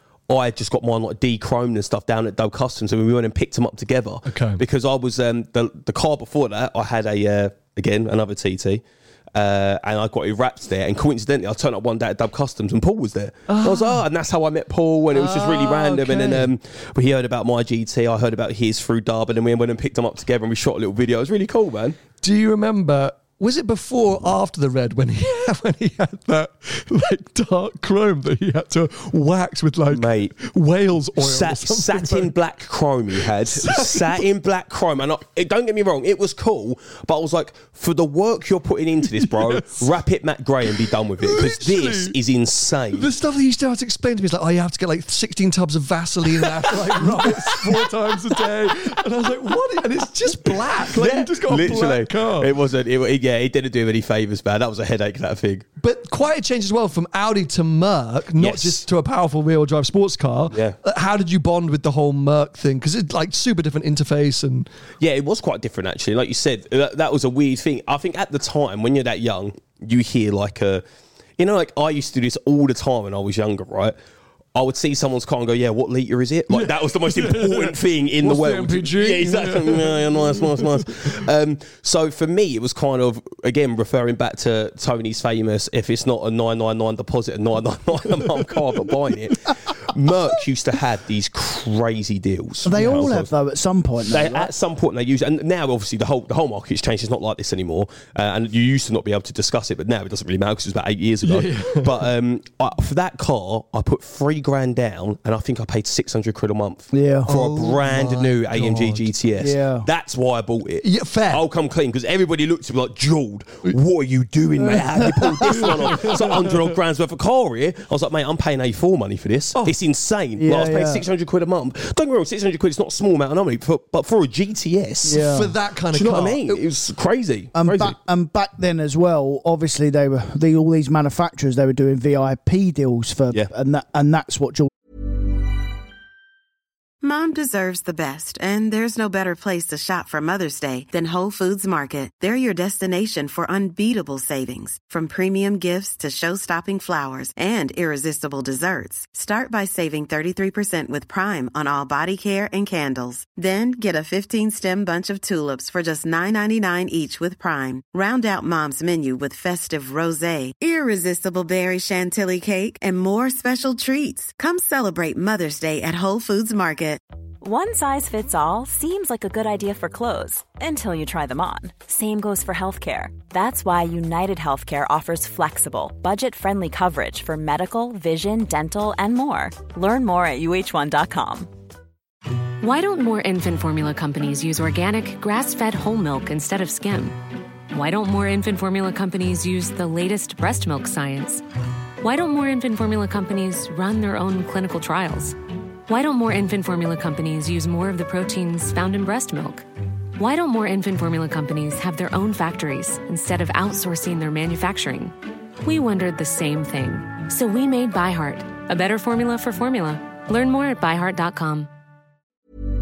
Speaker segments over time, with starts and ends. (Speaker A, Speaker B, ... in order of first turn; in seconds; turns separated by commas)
Speaker A: 0.3-8.8, Speaker B: 4.3-4.6, Speaker A: 9.3-22.0, Speaker B: 13.5-14.0, Speaker B: 15.1-16.5, Speaker B: 22.2-32.3, Speaker A: 29.9-30.3, Speaker A: 31.2-43.1, Speaker B: 33.2-34.2, Speaker B: 39.1-39.9, Speaker B: 40.8-42.2, Speaker B: 42.9-52.5, Speaker A: 47.0-47.5, Speaker A: 50.8-55.7, Speaker B: 55.8-64.7, Speaker A: 58.4-58.9, Speaker A: 60.5-60.8, Speaker A: 65.0-70.8, Speaker A: 71.4-74.0, Speaker A: 74.5-93.3, Speaker B: 76.5-81.1, Speaker C: 92.6-94.5, Speaker A: 94.1-128.0, Speaker B: 101.2-102.1, Speaker C: 106.9-107.3, Speaker B: 107.3-109.1, Speaker C: 109.4-109.9, Speaker B: 110.8-111.4, Speaker C: 114.6-115.7, Speaker B: 115.5-116.7, Speaker C: 120.4-121.0, Speaker C: 125.0-125.5, Speaker B: 125.1-126.6, Speaker C: 127.5-134.7, Speaker D: 137.0-167.0, Speaker E: 167.4-181.5, Speaker F: 182.6-187.2, Speaker F: 187.7-191.4, Speaker F: 192.0-195.4, Speaker F: 195.9-199.7, Speaker F: 200.2-211.7